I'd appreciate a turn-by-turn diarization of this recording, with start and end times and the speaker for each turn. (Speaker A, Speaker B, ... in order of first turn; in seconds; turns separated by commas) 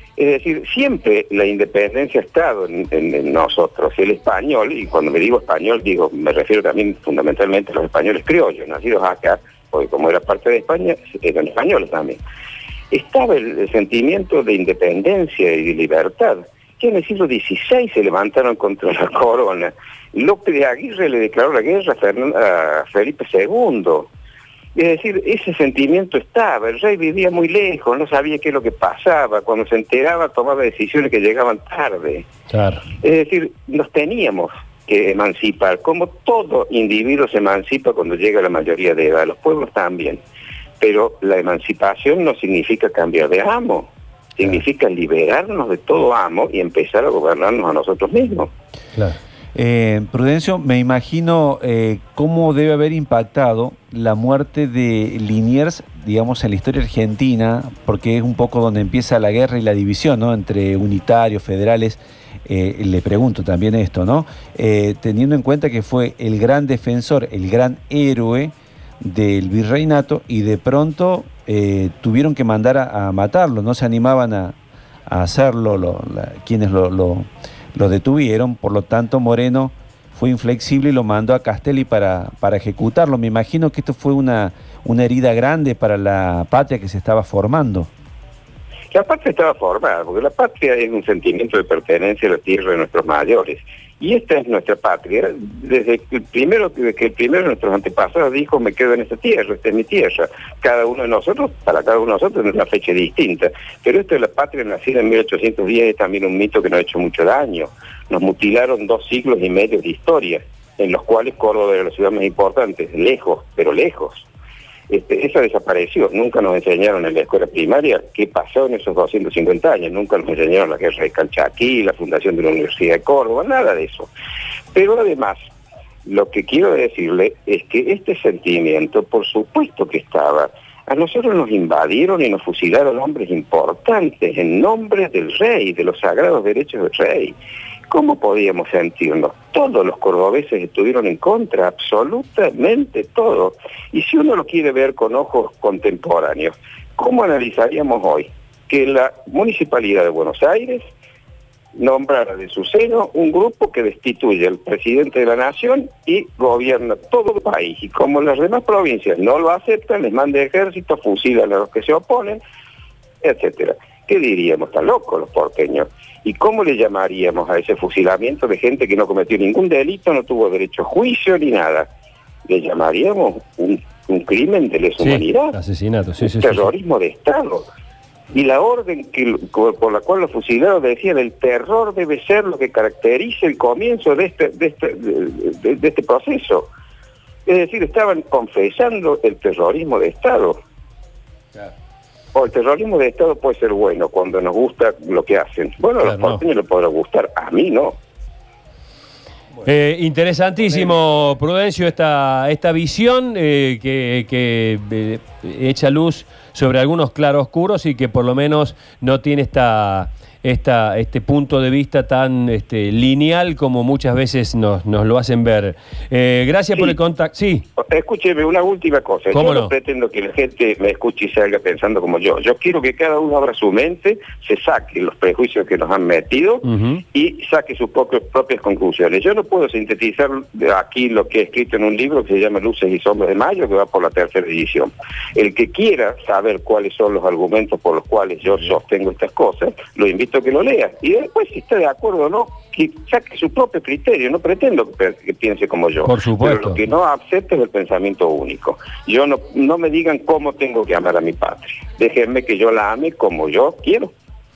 Speaker A: 0.2-12.2, Speaker A: 12.9-24.1, Speaker A: 24.8-32.3, Speaker B: 32.5-32.8, Speaker A: 33.0-40.2, Speaker A: 40.8-48.5, Speaker C: 49.5-74.6, Speaker C: 75.1-87.9, Speaker A: 88.9-114.3, Speaker A: 114.9-124.1, Speaker A: 124.7-125.5, Speaker A: 126.0-137.3, Speaker A: 137.9-150.8, Speaker A: 151.8-162.4, Speaker A: 163.2-171.9, Speaker A: 172.5-175.6, Speaker B: 175.0-176.7, Speaker A: 176.2-177.7, Speaker A: 178.3-186.7, Speaker A: 187.4-190.6, Speaker A: 192.3-198.0, Speaker B: 196.0-196.4, Speaker B: 199.6-217.6, Speaker A: 217.8-254.1, Speaker B: 219.3-219.7, Speaker B: 226.7-227.0, Speaker B: 246.0-246.8